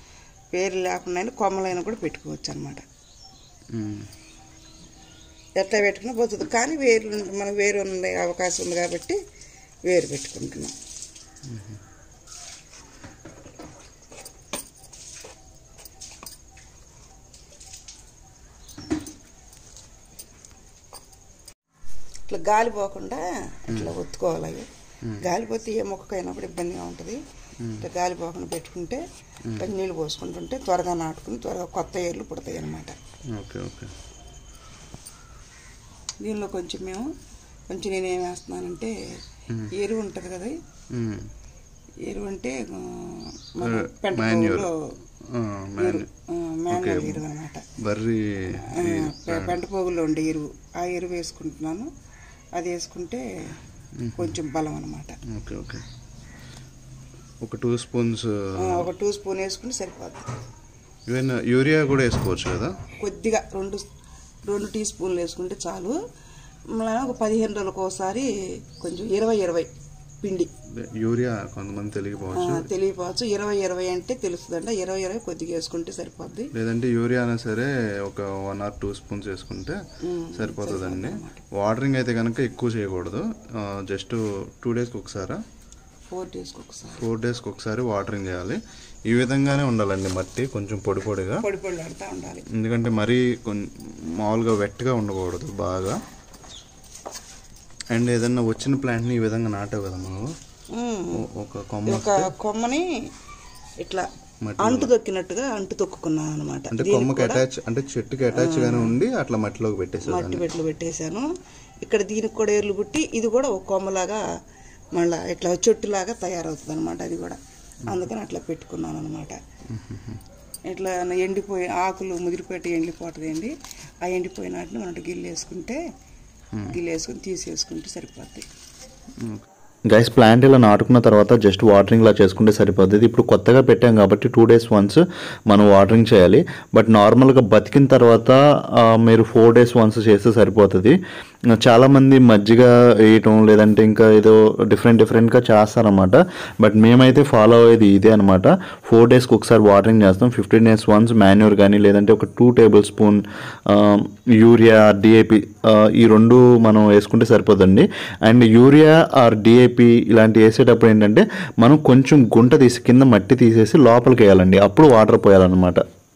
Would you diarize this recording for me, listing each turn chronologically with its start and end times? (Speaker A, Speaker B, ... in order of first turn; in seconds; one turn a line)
Speaker A: 0.5-2.8
Speaker B: 3.8-4.1
Speaker A: 5.6-9.2
Speaker A: 9.9-10.8
Speaker A: 22.3-24.7
Speaker A: 25.2-27.2
Speaker A: 27.8-29.0
Speaker A: 29.6-33.0
Speaker B: 33.3-33.9
Speaker A: 36.2-37.1
Speaker A: 37.7-38.9
Speaker A: 39.7-40.5
Speaker B: 40.9-41.3
Speaker A: 42.1-44.7
Speaker B: 43.6-44.7
Speaker B: 45.3-46.0
Speaker A: 45.8-47.6
Speaker B: 46.7-47.2
Speaker B: 47.8-49.6
Speaker A: 48.6-51.9
Speaker A: 52.6-53.2
Speaker B: 54.0-54.3
Speaker A: 54.2-55.2
Speaker B: 55.3-55.8
Speaker B: 57.4-58.8
Speaker A: 58.6-60.3
Speaker B: 61.1-62.7
Speaker A: 63.0-63.9
Speaker A: 64.5-66.0
Speaker A: 66.8-69.7
Speaker A: 70.2-70.5
Speaker B: 70.8-72.7
Speaker A: 72.3-76.5
Speaker B: 76.5-79.8
Speaker A: 80.0-81.5
Speaker B: 80.3-85.4
Speaker A: 86.1-87.1
Speaker B: 87.0-91.0
Speaker A: 91.4-92.5
Speaker B: 92.6-96.0
Speaker B: 97.9-100.3
Speaker A: 100.7-101.2
Speaker B: 101.3-102.3
Speaker A: 101.9-102.9
Speaker A: 103.8-107.5
Speaker B: 104.5-104.9
Speaker B: 106.7-110.4
Speaker A: 108.3-109.0
Speaker A: 110.0-111.3
Speaker A: 111.8-114.2
Speaker A: 115.0-119.4
Speaker B: 119.8-120.2
Speaker A: 120.7-123.5
Speaker A: 124.0-125.8
Speaker A: 126.7-128.5
Speaker C: 129.9-141.0
Speaker C: 141.6-165.8